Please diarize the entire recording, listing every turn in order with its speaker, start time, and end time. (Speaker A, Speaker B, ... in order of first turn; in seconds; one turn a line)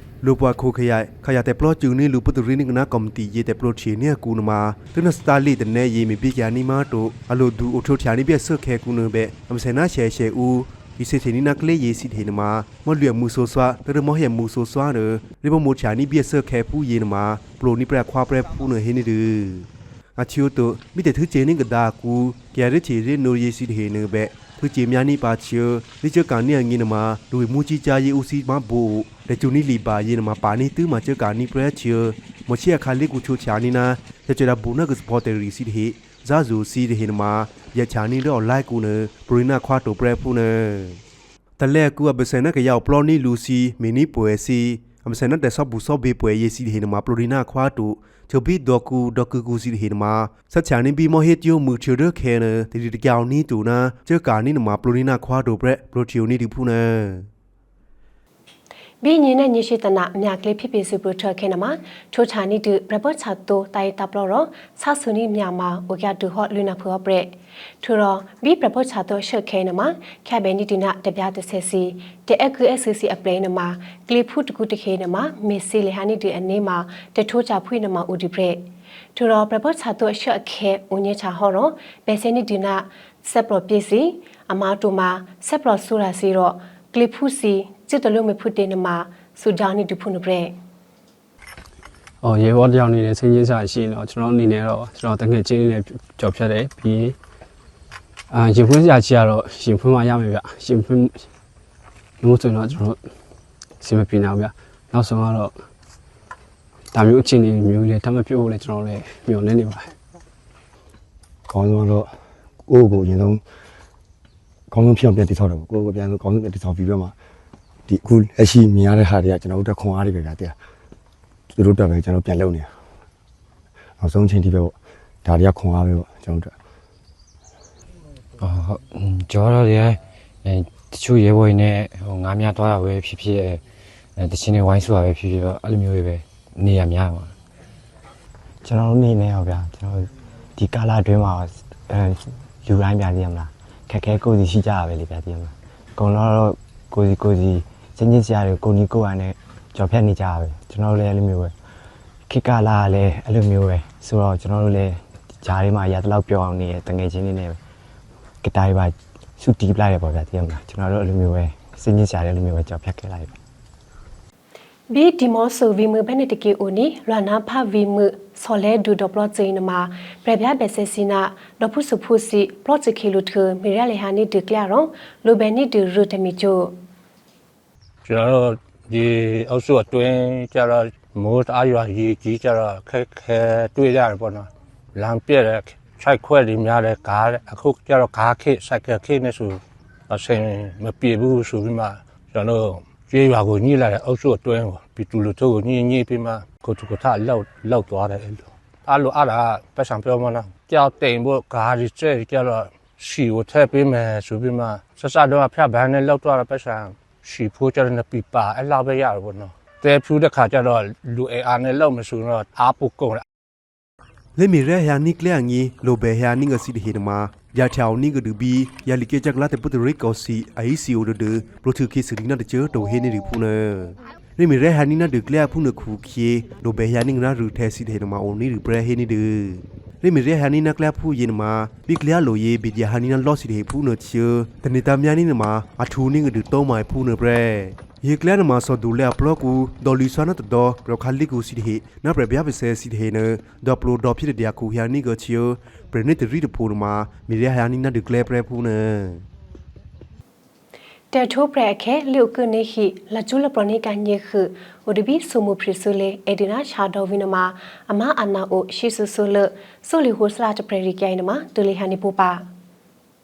Speaker A: 0.2-41.0
Speaker A: 41.6-57.3
Speaker B: 59.0-90.5
Speaker C: 92.2-97.2
Speaker C: 98.3-101.2
Speaker C: 102.2-103.0
Speaker C: 103.8-105.5
Speaker C: 106.9-109.9
Speaker D: 111.5-112.1
Speaker D: 112.7-113.4
Speaker D: 114.7-117.2
Speaker D: 117.9-120.6
Speaker D: 121.5-122.7
Speaker D: 124.0-126.5
Speaker E: 128.4-133.6
Speaker E: 134.2-137.3
Speaker F: 138.6-151.5
Speaker F: 152.3-157.6
Speaker F: 158.4-163.3
Speaker B: 164.9-176.8
Speaker G: 178.0-213.2
Speaker A: 214.3-249.2
Speaker B: 251.1-262.5